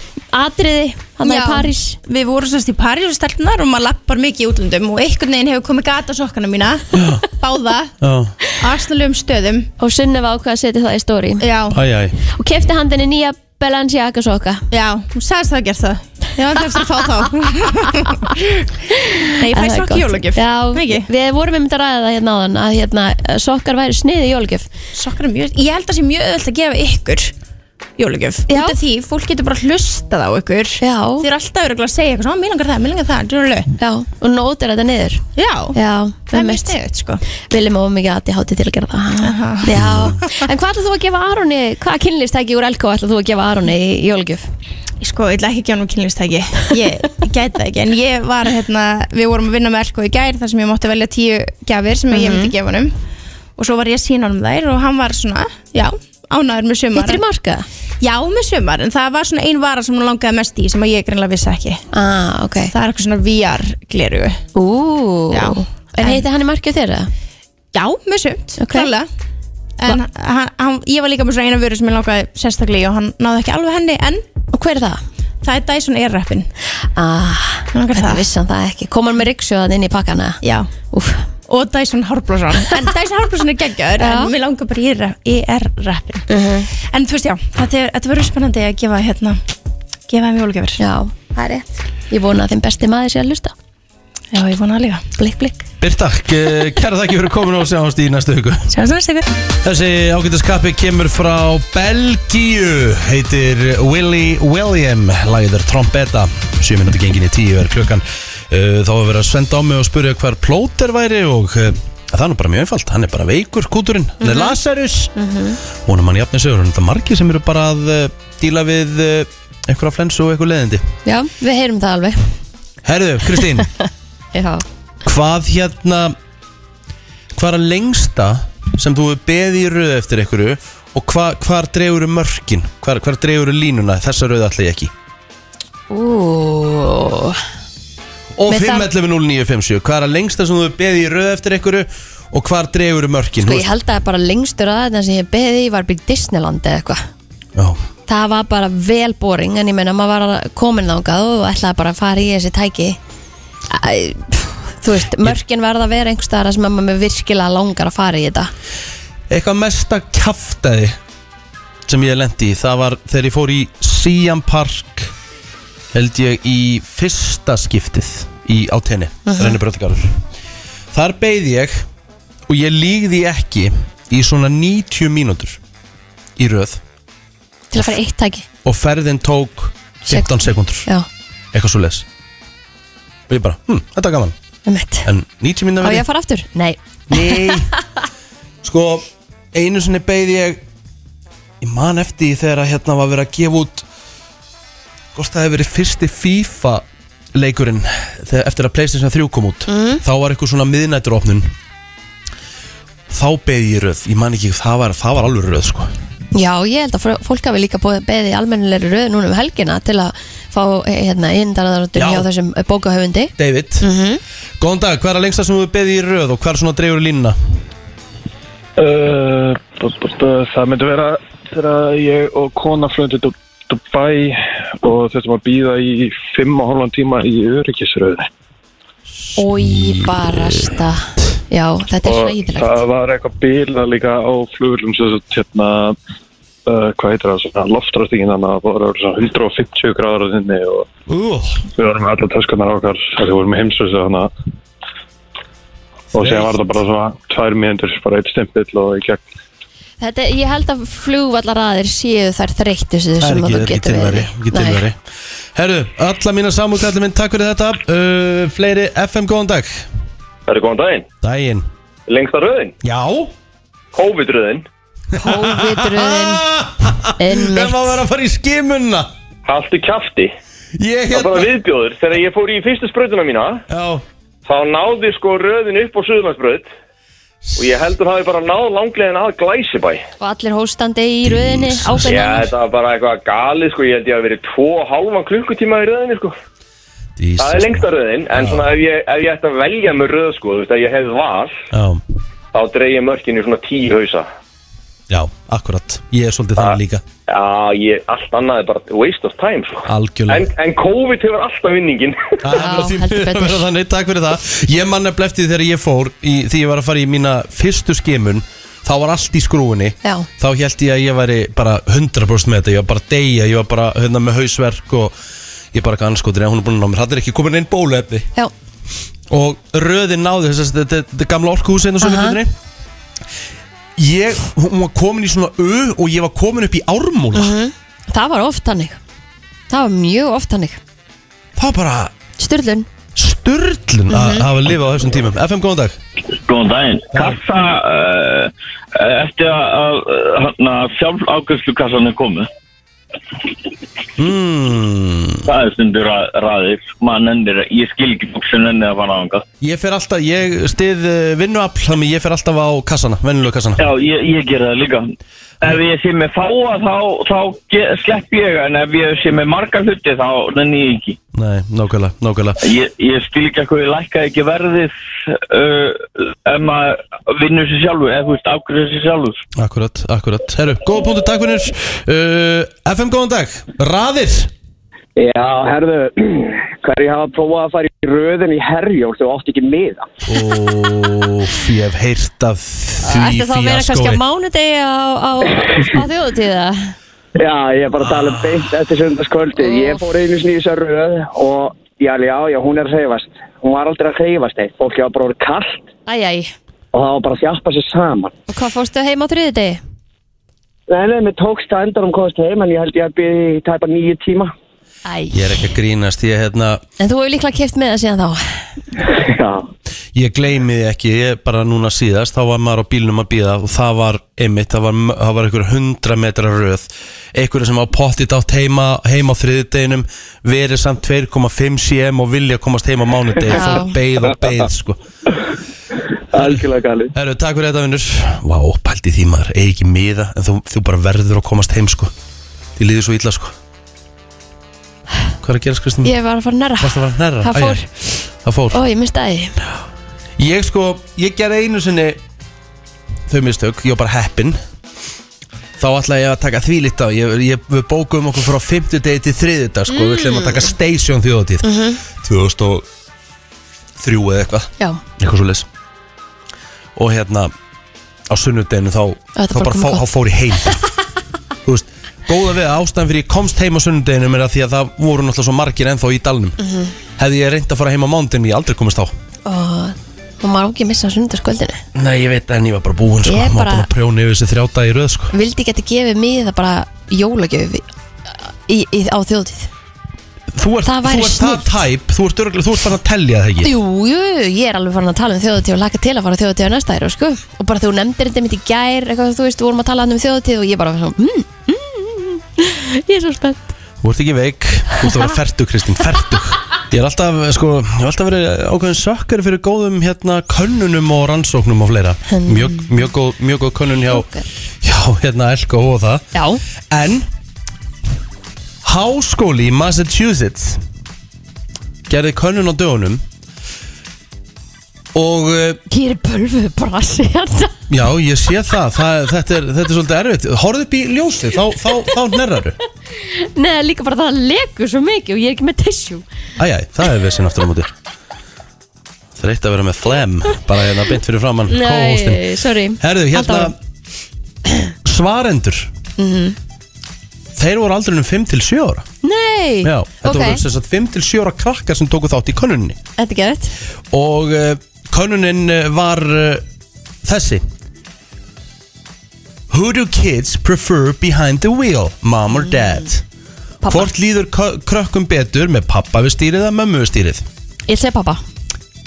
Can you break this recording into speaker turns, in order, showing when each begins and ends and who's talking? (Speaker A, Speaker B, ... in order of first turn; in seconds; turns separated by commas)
Speaker A: 0.3-2.0, Speaker B: 1.2-7.9, Speaker C: 6.9-7.2, Speaker C: 8.0-8.3, Speaker B: 8.6-9.7, Speaker A: 9.8-11.4, Speaker B: 11.4-11.8, Speaker C: 11.7-12.1, Speaker A: 12.3-14.6, Speaker B: 14.7-18.6, Speaker B: 19.4-21.1, Speaker A: 19.4-24.7, Speaker B: 24.9-27.3, Speaker B: 28.0-33.7, Speaker A: 28.5-28.8, Speaker A: 30.8-31.2, Speaker A: 33.8-35.2, Speaker B: 35.4-35.8, Speaker A: 35.7-36.7, Speaker B: 36.3-37.2, Speaker A: 37.5-44.5, Speaker B: 39.2-39.7, Speaker C: 39.7-40.2, Speaker B: 45.0-52.9, Speaker A: 52.1-52.5, Speaker B: 53.6-57.2, Speaker A: 56.9-57.6, Speaker B: 58.0-61.8, Speaker A: 61.9-62.7, Speaker B: 62.7-64.4, Speaker A: 64.5-67.1, Speaker B: 65.3-66.2, Speaker B: 67.7-69.1, Speaker A: 68.6-68.9, Speaker B: 69.8-74.2, Speaker A: 74.5-75.0, Speaker B: 75.4-76.5, Speaker A: 76.9-80.4, Speaker B: 77.7-78.2, Speaker B: 80.4-80.7, Speaker A: 80.9-81.3, Speaker B: 81.5-86.2, Speaker A: 84.0-84.3, Speaker A: 86.3-86.7, Speaker B: 86.8-89.4, Speaker B: 90.1-90.8, Speaker A: 90.8-91.2, Speaker B: 91.3-91.7, Speaker A: 92.1-93.5, Speaker B: 94.3-95.0, Speaker A: 95.2-95.6, Speaker C: 95.8-98.7, Speaker B: 98.7-99.2, Speaker C: 99.6-115.1, Speaker A: 114.2-114.6, Speaker A: 115.1-115.6, Speaker C: 115.8-120.8, Speaker A: 121.0-122.3, Speaker C: 122.8-123.7, Speaker A: 124.3-124.6, Speaker C: 125.0-126.1, Speaker C: 127.3-134.9, Speaker A: 135.9-137.4, Speaker C: 138.3-143.7, Speaker A: 138.5-138.9, Speaker A: 143.4-147.0, Speaker C: 147.6-147.8, Speaker A: 148.1-153.0, Speaker A: 153.7-158.5, Speaker C: 159.3-161.0, Speaker C: 161.8-165.1, Speaker C: 165.9-170.2, Speaker A: 169.2-169.6, Speaker C: 170.9-171.8, Speaker C: 172.5-175.6, Speaker C: 176.4-176.8, Speaker A: 177.7-178.4, Speaker C: 178.6-180.9, Speaker C: 181.5-182.1, Speaker C: 183.3-184.3, Speaker A: 184.7-185.1, Speaker C: 185.0-186.1, Speaker A: 185.8-187.8, Speaker C: 187.1-187.7, Speaker C: 188.6-190.6, Speaker C: 191.6-193.8, Speaker C: 195.1-201.5, Speaker A: 199.7-200.0, Speaker C: 203.1-205.9, Speaker A: 206.3-214.2, Speaker C: 211.9-212.3, Speaker C: 213.4-213.8, Speaker C: 214.6-217.4, Speaker D: 218.8-228.3, Speaker C: 229.3-230.7, Speaker A: 229.3-232.8, Speaker D: 232.0-235.9, Speaker D: 236.7-240.9, Speaker C: 241.1-241.6, Speaker D: 241.7-244.3, Speaker D: 246.1-249.2, Speaker C: 246.2-246.5, Speaker A: 250.0-254.8, Speaker C: 253.2-255.0, Speaker C: 255.5-259.9, Speaker E: 260.5-261.1, Speaker C: 261.2-261.7, Speaker E: 262.1-262.7, Speaker C: 262.8-263.3, Speaker E: 263.9-264.6, Speaker C: 265.1-269.1, Speaker A: 265.2-266.4, Speaker A: 267.2-268.0, Speaker E: 269.4-270.3, Speaker C: 270.8-271.5, Speaker E: 271.1-273.6, Speaker C: 273.7-274.0, Speaker E: 274.4-276.7, Speaker E: 277.6-280.0, Speaker A: 280.2-282.5, Speaker C: 281.2-282.3, Speaker E: 282.0-286.3, Speaker C: 287.2-288.7, Speaker E: 287.4-291.6, Speaker C: 291.7-292.0, Speaker E: 292.5-294.3, Speaker C: 295.1-297.0, Speaker E: 296.6-302.4, Speaker C: 299.9-300.5, Speaker C: 302.4-315.1, Speaker A: 302.5-303.6, Speaker C: 315.7-318.3, Speaker C: 319.3-322.5, Speaker A: 322.0-322.4, Speaker C: 324.0-327.5, Speaker A: 327.3-329.0, Speaker A: 329.7-330.8, Speaker C: 331.6-332.1, Speaker A: 332.4-332.9, Speaker C: 333.1-336.0, Speaker A: 334.1-334.5, Speaker F: 336.4-342.5, Speaker C: 337.1-337.4, Speaker C: 344.2-345.5, Speaker F: 345.4-349.4, Speaker C: 349.6-353.8, Speaker F: 353.8-355.1, Speaker F: 355.6-361.2, Speaker C: 361.3-362.6, Speaker F: 362.6-369.4, Speaker C: 369.6-374.5, Speaker G: 375.2-380.1, Speaker C: 380.2-384.2, Speaker A: 383.0-386.9, Speaker G: 387.4-395.9, Speaker A: 389.6-390.0, Speaker A: 396.1-396.5, Speaker G: 396.9-398.3, Speaker A: 398.5-399.8, Speaker G: 400.9-404.5, Speaker A: 405.0-405.4, Speaker C: 405.3-406.8, Speaker A: 407.0-408.6, Speaker G: 409.2-409.7, Speaker C: 410.1-425.0, Speaker A: 423.5-424.0, Speaker G: 426.3-427.1, Speaker C: 426.3-432.1, Speaker C: 432.8-433.5, Speaker C: 435.4-436.1, Speaker A: 436.0-437.8, Speaker C: 436.8-437.9, Speaker C: 438.4-438.8, Speaker A: 438.7-439.6, Speaker C: 440.4-442.2, Speaker C: 443.3-444.6, Speaker C: 445.8-452.8, Speaker A: 449.9-450.7, Speaker A: 451.6-452.0, Speaker C: 454.0-455.7, Speaker C: 456.9-457.5, Speaker C: 458.3-460.8, Speaker A: 459.4-460.0, Speaker C: 461.6-466.6, Speaker A: 466.6-466.9, Speaker C: 467.2-469.1, Speaker A: 469.4-471.8, Speaker C: 471.9-475.3, Speaker A: 473.2-473.9, Speaker A: 475.3-477.8, Speaker A: 478.3-479.7, Speaker C: 480.5-483.7, Speaker A: 480.8-481.8, Speaker A: 483.6-493.7, Speaker C: 494.0-504.3, Speaker A: 502.3-503.1, Speaker A: 504.1-504.5, Speaker C: 504.8-506.3, Speaker A: 506.3-506.6, Speaker C: 506.9-507.3, Speaker C: 508.8-510.8, Speaker C: 512.1-513.2, Speaker C: 515.1-515.8, Speaker A: 515.9-517.8, Speaker C: 517.9-522.8, Speaker A: 523.1-526.2, Speaker C: 526.6-527.9, Speaker C: 529.4-532.5, Speaker A: 531.7-533.7, Speaker C: 533.0-533.8, Speaker C: 535.0-535.9, Speaker A: 536.2-536.5, Speaker C: 537.5-539.0, Speaker A: 539.2-540.6, Speaker C: 539.8-543.0, Speaker A: 543.2-543.7, Speaker C: 544.1-546.6, Speaker C: 547.2-547.6, Speaker C: 549.7-553.2, Speaker A: 552.6-553.0, Speaker A: 553.8-554.1, Speaker C: 553.9-557.5, Speaker A: 557.9-558.4